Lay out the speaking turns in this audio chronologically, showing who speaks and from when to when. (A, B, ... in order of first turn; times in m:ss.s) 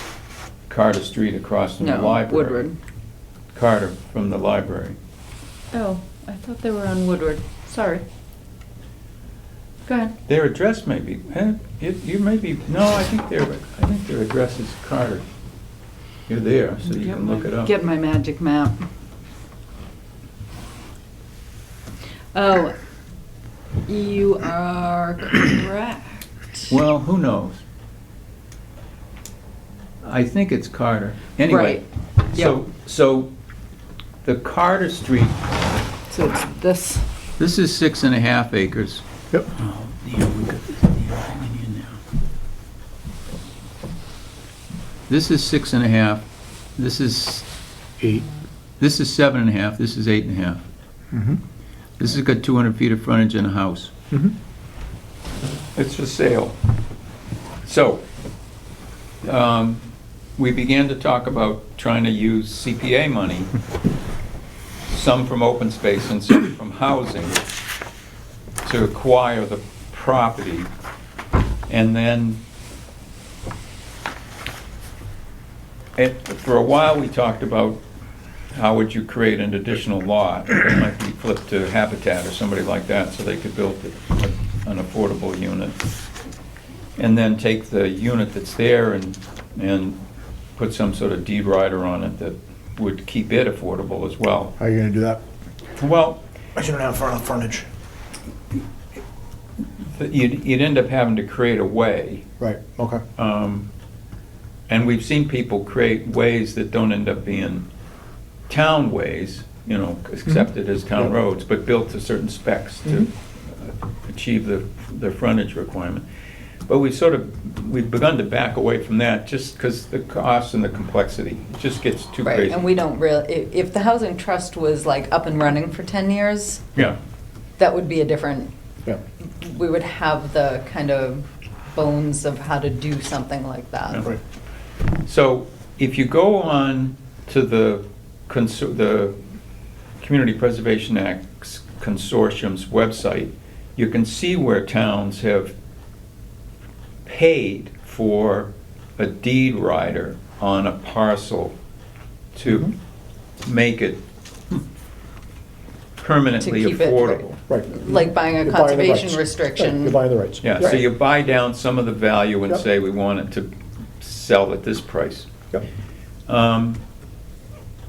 0:00.7-0:02.6 A
0:01.8-0:02.8 B
0:03.5-0:05.0 A
0:05.7-0:08.0 B
0:09.9-0:10.1 B
0:10.3-0:15.3 A
0:16.3-0:17.7 A
0:16.9-0:18.8 B
0:22.3-0:22.8 B
0:23.9-0:26.7 B
0:26.7-0:27.6 A
0:30.0-0:33.3 A
0:31.4-0:32.6 B
0:34.2-0:35.4 A
0:36.1-0:37.1 B
0:37.4-0:42.0 A
0:45.1-0:46.2 A
0:46.8-0:47.5 A
0:48.0-0:48.2 C
0:48.8-0:50.6 A
0:51.1-0:51.4 C
0:52.0-0:53.9 A
0:55.8-0:56.6 A
0:57.6-0:58.0 A
0:59.2-1:03.5 A
1:04.9-1:07.4 A
1:08.6-1:10.7 A
1:11.7-1:12.4 A
1:16.0-1:17.8 A
1:18.5-1:25.8 A
1:27.0-1:30.0 A
1:30.6-1:34.5 A
1:34.6-1:35.2 C
1:35.8-1:36.2 A
1:36.6-1:37.7 C
1:39.8-1:42.2 A
1:42.4-1:43.0 C
1:43.2-1:43.7 A
1:44.7-1:47.7 A
1:48.5-1:56.0 A
1:56.7-2:02.7 A
2:02.2-2:06.7 B
2:07.6-2:08.5 B
2:09.2-2:14.1 B
2:15.0-2:19.2 A
2:20.0-2:25.6 A
2:27.0-2:31.6 A
2:32.4-2:32.7 A
2:33.4-2:34.0 A
2:36.0-2:37.3 A
2:36.4-2:40.0 B
2:37.5-2:40.8 C
2:40.4-2:45.3 A
2:46.3-2:46.8 A